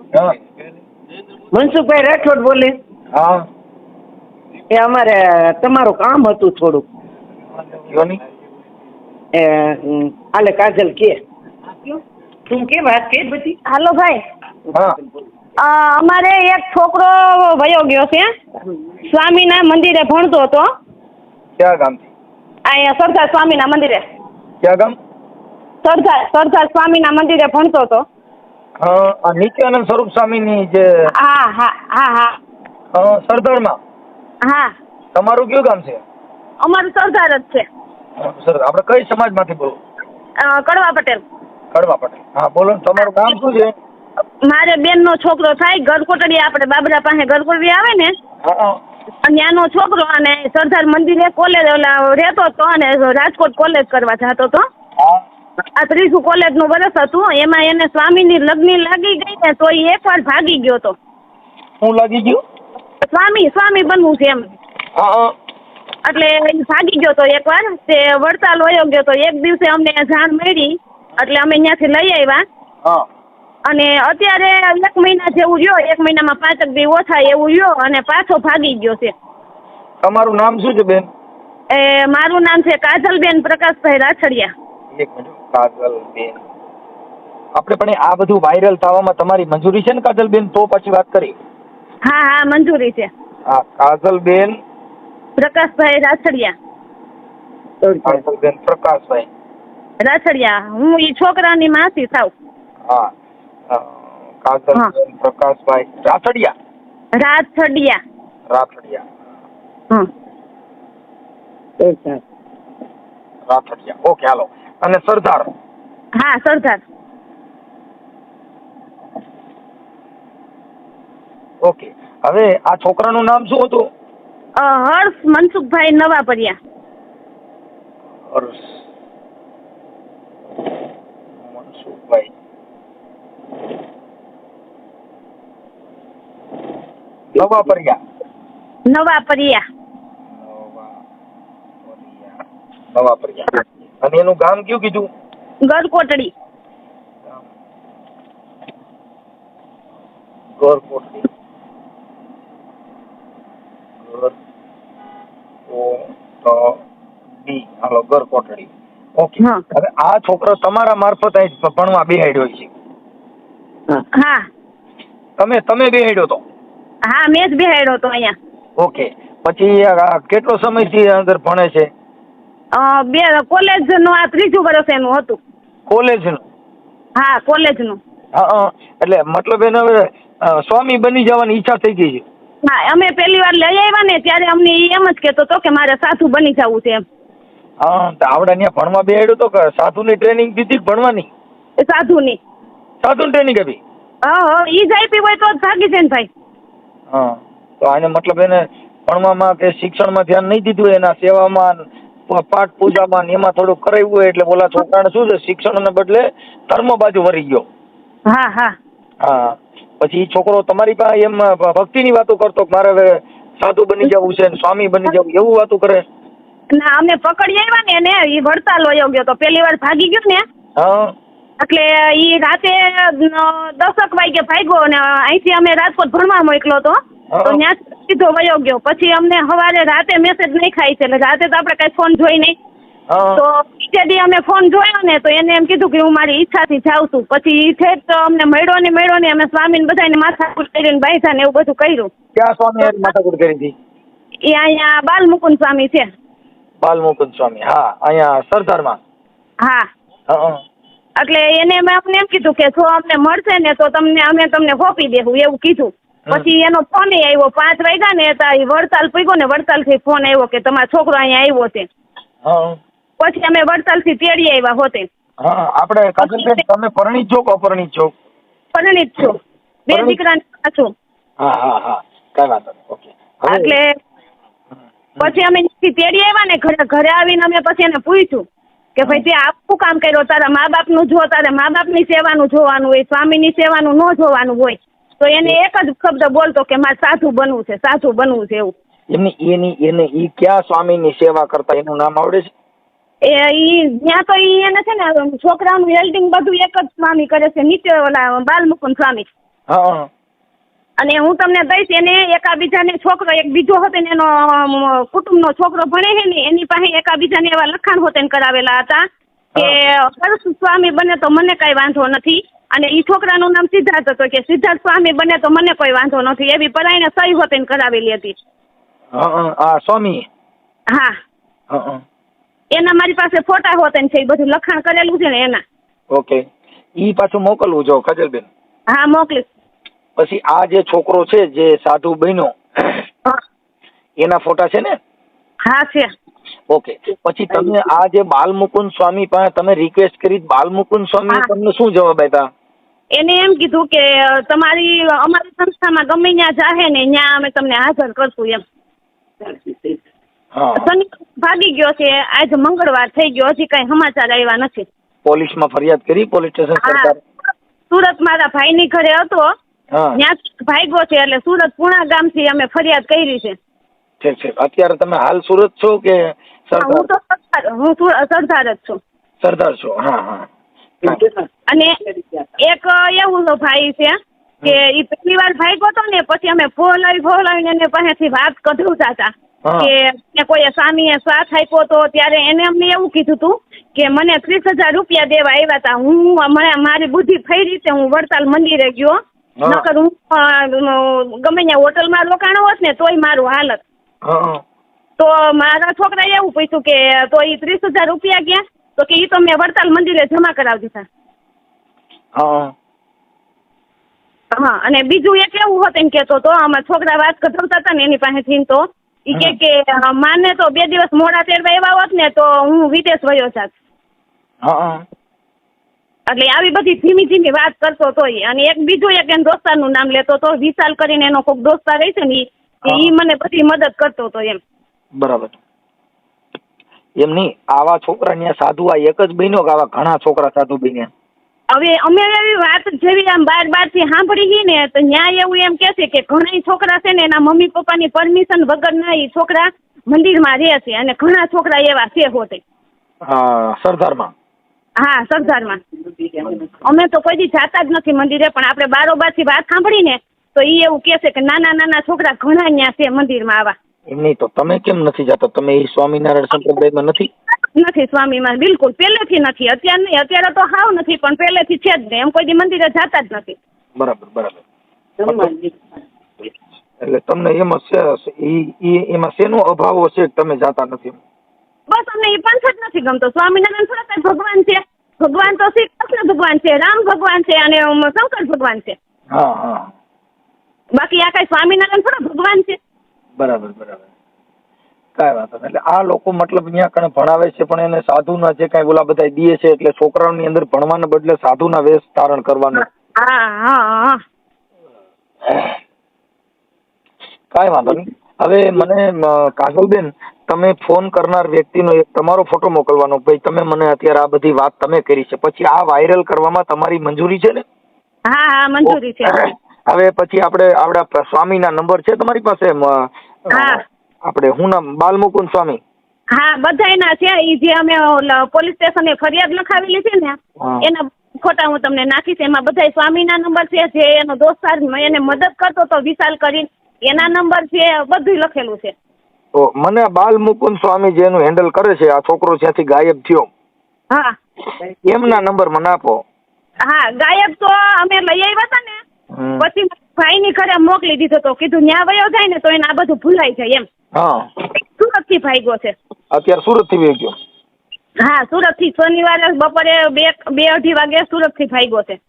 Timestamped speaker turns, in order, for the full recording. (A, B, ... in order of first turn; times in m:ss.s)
0:01.5-0:02.7 A
0:03.1-0:03.4 B
0:04.7-0:06.8 A
0:07.5-0:08.2 B
0:09.3-0:11.2 A
0:11.9-0:13.6 A
0:13.6-0:14.2 C
0:15.6-0:18.3 C
0:19.0-0:20.7 C
0:21.6-0:22.1 B
0:22.6-0:24.0 C
0:24.6-0:24.9 B
0:25.8-0:28.0 C
0:28.8-0:30.8 B
0:31.2-0:32.4 C
0:32.9-0:33.8 B
0:34.4-0:34.7 C
0:35.1-0:36.0 B
0:36.6-0:37.7 C
0:38.2-0:39.8 B
0:40.4-0:41.2 C
0:41.7-0:43.7 B
0:44.4-0:48.1 C
0:48.4-0:48.8 B
0:49.2-0:54.7 C
0:55.8-1:01.0 C
1:01.8-1:02.4 B
1:03.0-1:04.4 C
1:05.0-1:05.3 B
1:06.0-1:12.4 C
1:13.7-1:19.1 C
1:20.0-1:21.1 B
1:21.7-1:24.5 C
1:24.9-1:26.4 B
1:27.6-1:31.3 B
1:32.0-1:33.1 C
1:33.5-1:34.5 B
1:35.4-1:36.5 C
1:37.8-1:38.2 A
1:38.0-1:39.3 B
1:40.0-1:42.3 C
1:43.7-1:46.5 B
1:47.2-1:48.0 C
1:48.5-1:49.0 B
1:51.8-1:52.2 A
1:53.5-1:55.5 B
1:56.2-1:56.8 C
2:01.6-2:03.9 B
2:04.6-2:06.6 C
2:08.3-2:08.6 B
2:11.4-2:12.3 B
2:17.3-2:18.0 B
2:18.9-2:19.6 C
2:20.4-2:20.9 B
2:21.9-2:22.3 B
2:22.9-2:23.5 B
2:24.0-2:25.1 B
2:25.7-2:26.3 C
2:30.6-2:31.2 B
2:34.0-2:34.3 B
2:35.7-2:36.8 B
2:37.4-2:42.7 B
2:44.1-2:44.4 C
2:45.4-2:46.4 B
2:47.1-2:48.3 C
2:48.8-2:51.9 B
2:52.7-2:55.4 C
2:55.9-2:56.4 B
2:57.2-2:58.0 C
2:58.3-3:02.2 B
3:02.6-3:07.0 C
3:07.8-3:11.3 B
3:11.8-3:12.4 C
3:13.0-3:13.8 B
3:14.3-3:16.3 C
3:17.1-3:27.6 B
3:28.3-3:28.7 C
3:29.2-3:36.0 B
3:36.8-3:40.4 C
3:40.8-3:41.1 B
3:41.6-3:52.6 C
3:47.3-3:47.6 B
3:53.1-3:53.4 B
3:53.4-4:02.1 C
4:02.4-4:03.7 B
4:02.8-4:03.1 C
4:04.4-4:06.1 C
4:06.8-4:09.0 B
4:10.3-4:10.6 B
4:11.2-4:21.9 C
4:22.4-4:22.8 B
4:23.2-4:25.1 C
4:25.4-4:28.1 B
4:26.2-4:26.6 C
4:28.7-4:30.9 C
4:29.9-4:30.2 B
4:31.4-4:33.8 B
4:33.5-4:33.9 C
4:35.2-4:38.4 C
4:39.0-4:48.7 C
4:49.1-4:52.5 B
4:53.2-4:59.3 C
4:59.7-5:00.1 B
5:01.0-5:09.0 C
5:09.6-5:18.4 C
5:19.1-5:20.2 B
5:21.7-5:22.0 B
5:22.7-5:25.6 C
5:26.1-5:26.4 B
5:27.0-5:28.5 B
5:28.9-5:29.5 C
5:30.2-5:33.0 B
5:34.2-5:34.9 B
5:35.7-5:36.1 C
5:36.7-5:42.5 B
5:43.2-5:48.6 C
5:50.5-5:50.9 B
5:50.8-5:54.9 C
5:55.2-5:57.2 B
5:56.8-5:57.1 C
5:57.9-5:59.5 C
6:00.2-6:03.6 C
6:04.2-6:07.1 B
6:06.8-6:09.0 C
6:09.4-6:10.5 B
6:11.0-6:11.5 A
6:12.6-6:33.8 C
6:19.6-6:19.9 B
6:29.6-6:29.8 B
6:34.2-6:34.6 B
6:35.2-6:41.1 C
6:42.4-6:42.7 B
6:44.5-6:53.7 C
6:54.6-6:55.0 B
6:56.3-7:04.6 C
7:02.9-7:03.1 B
7:05.2-7:05.6 B
7:07.2-7:11.1 B
7:11.7-7:22.6 C
7:23.2-7:24.3 B
7:25.0-7:25.8 C
7:26.4-7:33.7 C
7:34.1-7:37.3 B
7:37.8-7:43.6 C
7:44.0-7:44.6 B
7:45.2-7:45.8 A
7:45.2-7:45.5 B
7:47.0-7:51.2 B
7:51.9-7:59.0 C
7:59.3-7:59.9 B
8:01.0-8:02.8 C
8:03.4-8:04.0 B
8:05.2-8:12.8 B
8:12.8-8:14.2 C
8:15.5-8:15.8 B
8:17.5-8:27.6 B
8:28.3-8:29.4 C
8:28.8-8:35.8 B
8:33.5-8:33.8 C
8:36.3-8:48.9 C
8:40.6-8:40.8 B
8:49.5-8:53.5 B
8:55.0-8:56.2 B
8:56.9-8:59.0 C
8:59.3-8:59.6 B
8:59.6-9:03.8 C
9:04.8-9:05.9 C
9:06.3-9:07.3 B
9:08.2-9:12.2 C